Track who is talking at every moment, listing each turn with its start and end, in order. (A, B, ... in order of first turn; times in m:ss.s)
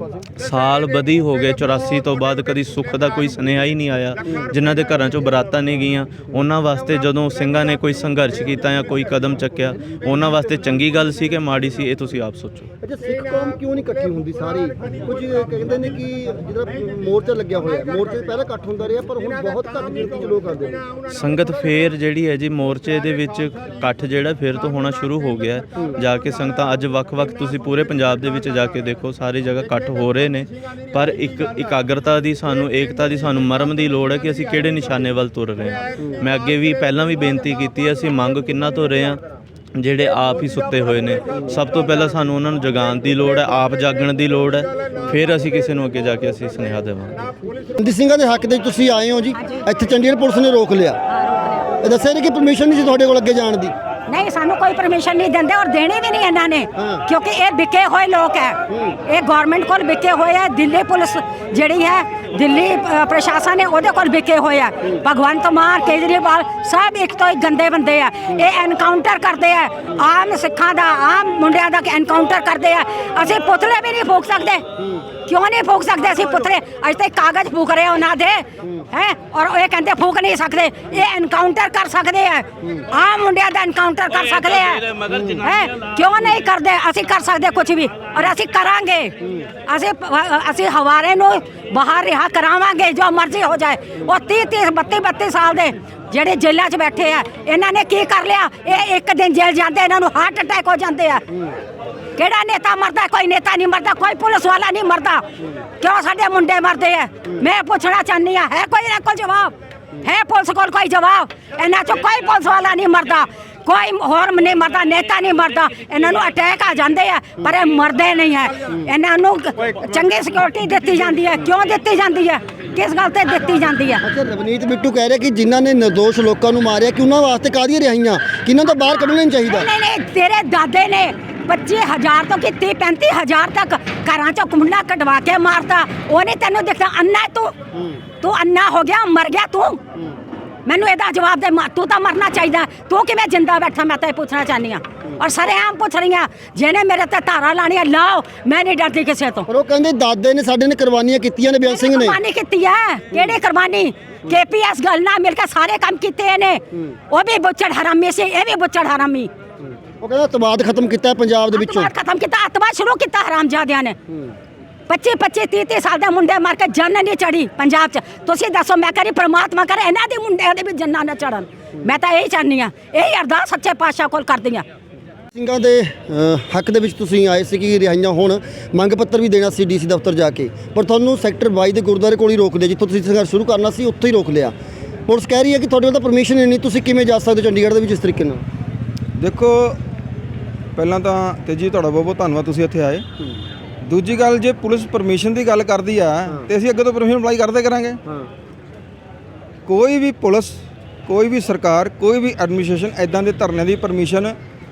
0:00.4-0:12.7 A
0:12.8-0:20.9 B
0:21.1-0:39.2 A
0:36.0-0:36.3 B
0:39.8-0:47.3 A
0:47.6-0:51.0 B
0:51.2-0:51.6 C
0:51.8-0:53.7 B
0:54.1-1:14.7 C
0:56.8-0:57.0 B
0:58.7-0:59.0 B
1:14.8-1:15.1 B
1:15.3-1:41.3 C
1:25.1-1:25.4 B
1:29.2-1:29.5 B
1:42.2-1:45.3 C
1:45.8-2:04.0 C
2:04.0-2:09.7 B
2:09.4-2:17.5 C
2:17.7-2:18.0 B
2:18.2-2:19.8 C
2:20.7-2:29.5 C
2:29.5-2:32.2 B
2:31.6-2:39.3 C
2:39.6-2:41.9 B
2:41.5-2:44.0 C
2:44.1-2:44.4 B
2:44.9-2:54.7 C
2:55.3-3:04.6 B
3:05.1-3:08.4 B
3:09.2-3:09.8 D
3:10.8-3:13.0 D
3:13.8-3:18.0 D
3:18.1-3:18.3 B
3:19.7-3:24.4 D